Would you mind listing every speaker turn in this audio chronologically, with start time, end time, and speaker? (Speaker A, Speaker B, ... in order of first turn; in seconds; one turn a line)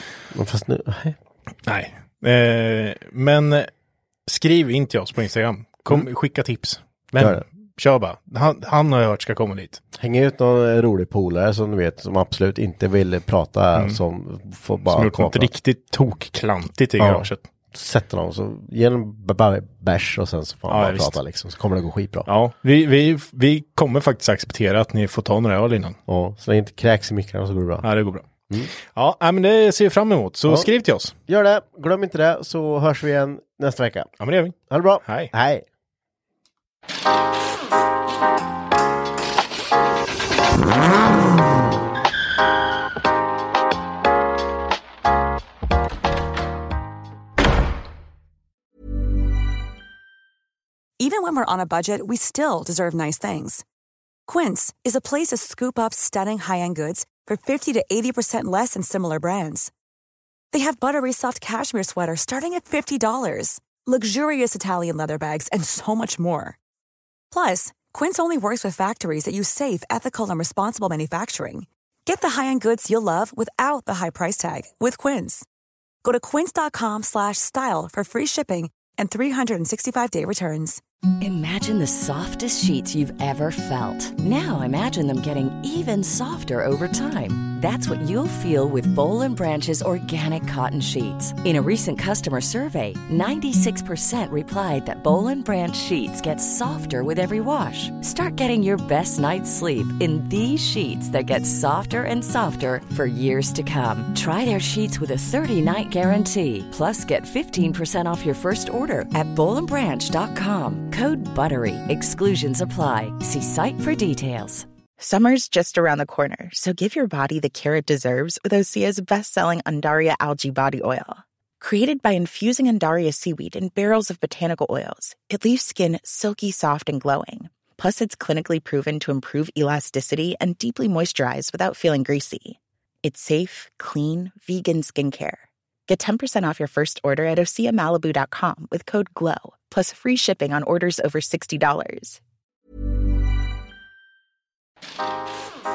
Speaker A: 0.3-1.2
Speaker B: 1.7-3.7
Speaker B: 4.3-9.8
Speaker A: 7.2-7.5
Speaker A: 9.9-15.5
Speaker B: 13.8-14.0
Speaker B: 14.9-17.4
Speaker A: 17.0-22.3
Speaker B: 20.7-21.2
Speaker B: 22.3-26.0
Speaker A: 26.1-27.9
Speaker B: 27.8-28.3
Speaker B: 28.8-31.1
Speaker A: 31.3-34.1
Speaker B: 34.2-35.3
Speaker A: 34.7-35.6
Speaker C: 51.0-53.6
Speaker C: 54.3-59.7
Speaker C: 60.5-66.6
Speaker C: 67.3-75.5
Speaker C: 76.0-80.8
Speaker D: 81.2-114.7
Speaker E: 115.0-142.2